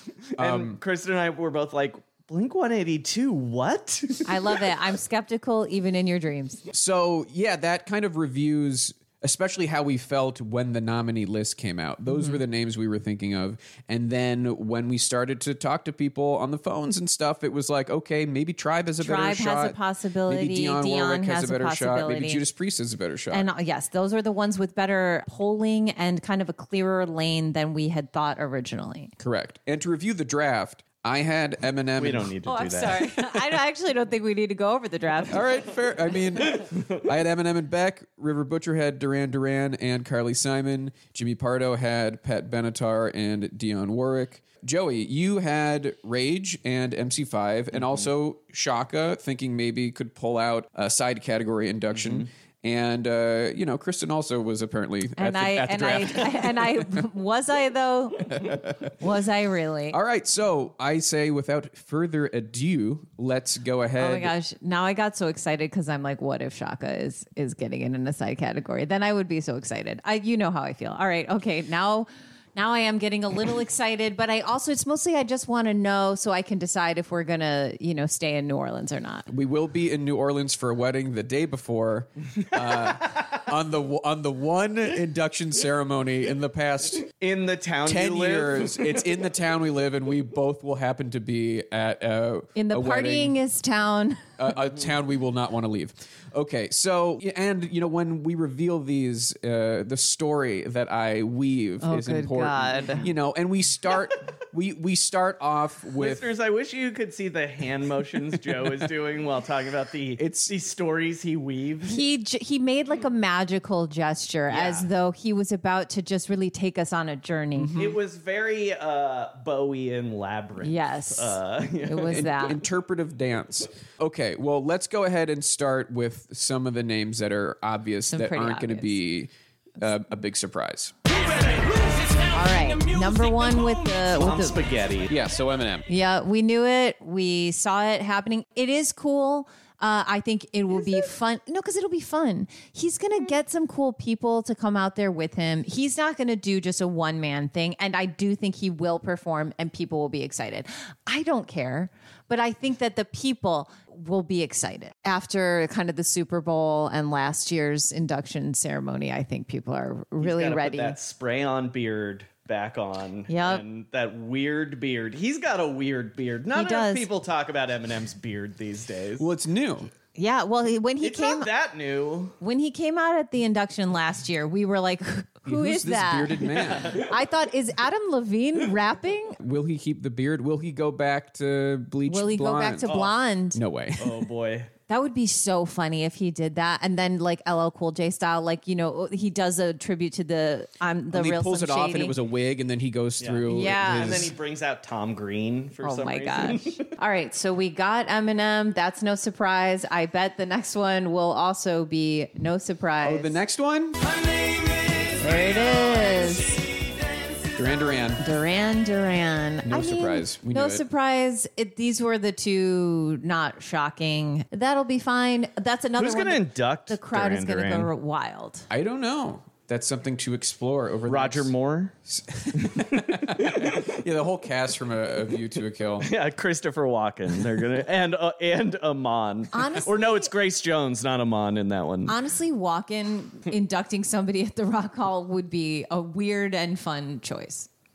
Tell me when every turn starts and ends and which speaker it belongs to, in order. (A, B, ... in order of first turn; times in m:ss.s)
0:00.4-0:00.8 A
0:00.4-0:04.6 B
0:04.2-0:06.6 C
0:06.7-0:23.5 A
0:12.1-0:12.4 C
0:19.0-0:22.4 C
0:23.3-0:29.1 C
0:29.2-0:32.3 A
0:32.0-0:33.4 B
0:32.4-0:35.4 C
0:35.3-0:56.9 A
0:47.8-0:48.1 B
0:51.9-0:52.3 B
0:55.2-1:00.0 C
0:58.3-0:58.9 A
0:59.9-1:04.3 A
1:04.0-1:19.3 C
1:19.3-1:27.1 A
1:27.2-1:28.9 B
1:27.8-1:33.4 A
1:32.6-1:34.3 C
1:34.4-1:46.3 A
1:41.8-1:43.1 C
1:46.0-1:52.0 B
1:50.2-1:50.5 A
1:51.8-1:57.9 C
1:54.5-1:54.9 B
1:57.6-1:58.0 A
1:57.8-2:02.3 B
2:00.6-2:02.6 C
2:02.0-2:10.9 A
2:08.1-2:09.0 C
2:12.2-2:14.6 C
2:14.2-2:15.1 B
2:15.1-2:15.9 A
2:15.9-2:41.0 C
2:40.2-2:49.3 B
2:43.3-2:43.6 C
2:46.5-2:47.1 C
2:49.2-2:49.9 A
2:50.2-2:51.5 C
2:51.0-2:52.4 B
2:52.4-2:59.4 C
2:55.5-2:57.0 A
2:59.4-3:02.9 A
3:02.1-3:03.6 C
3:02.8-3:03.2 B
3:03.5-3:04.3 A
3:04.0-3:04.7 B
3:04.9-3:12.2 C
3:11.1-3:14.4 A
3:13.2-3:16.9 B
3:13.5-3:14.3 C
3:15.8-3:23.4 C
3:23.0-3:24.0 A
3:25.2-3:26.7 C
3:27.5-3:28.2 A
3:28.2-3:38.7 C
3:29.7-3:30.8 A
3:36.0-3:37.9 B
3:38.7-3:41.5 A
3:41.1-3:41.9 B
3:42.1-3:46.1 A
3:42.6-3:43.9 B
3:46.0-3:52.2 B
3:49.5-3:50.3 C
3:52.1-3:57.7 C